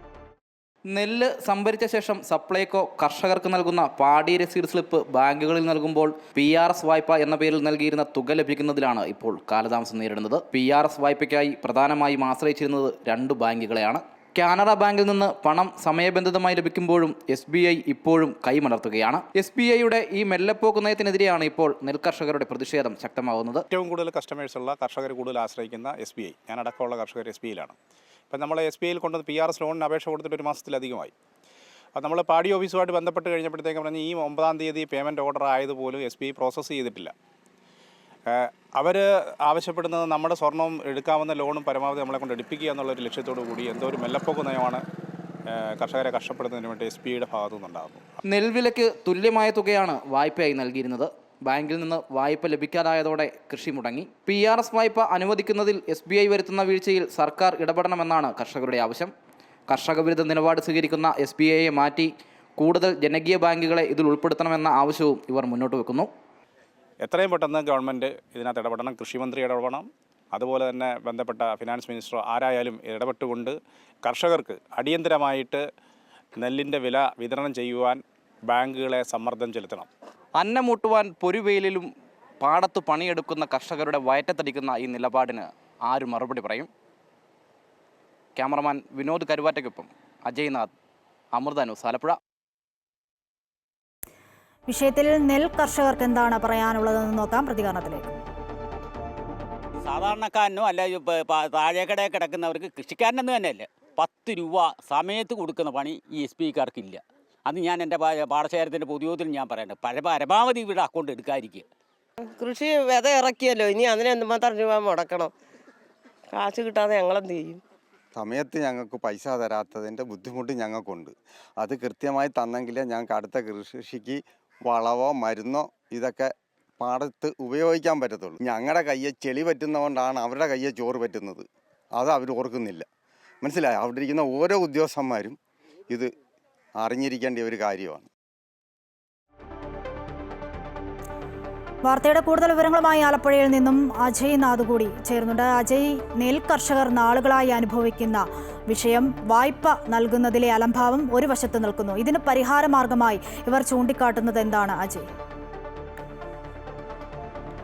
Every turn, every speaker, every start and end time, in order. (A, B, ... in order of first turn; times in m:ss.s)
0:00.9-0:23.6 A
0:23.7-0:27.8 B
0:28.3-0:31.1 B
0:32.0-0:37.1 B
0:38.3-0:44.8 B
0:45.5-0:48.1 B
0:48.3-0:59.1 A
0:59.7-1:06.1 A
1:07.0-1:15.6 B
1:16.4-1:19.9 B
1:20.4-1:21.9 A
1:22.4-1:26.7 A
1:28.4-1:30.7 A
1:31.4-1:32.2 A
1:34.7-1:38.0 C
1:39.8-1:45.8 D
1:46.3-1:51.6 D
1:52.3-1:55.3 E
1:56.3-1:57.6 E
1:58.2-2:12.9 F
2:13.4-2:15.4 F
2:16.8-2:18.1 F
2:21.9-2:35.1 C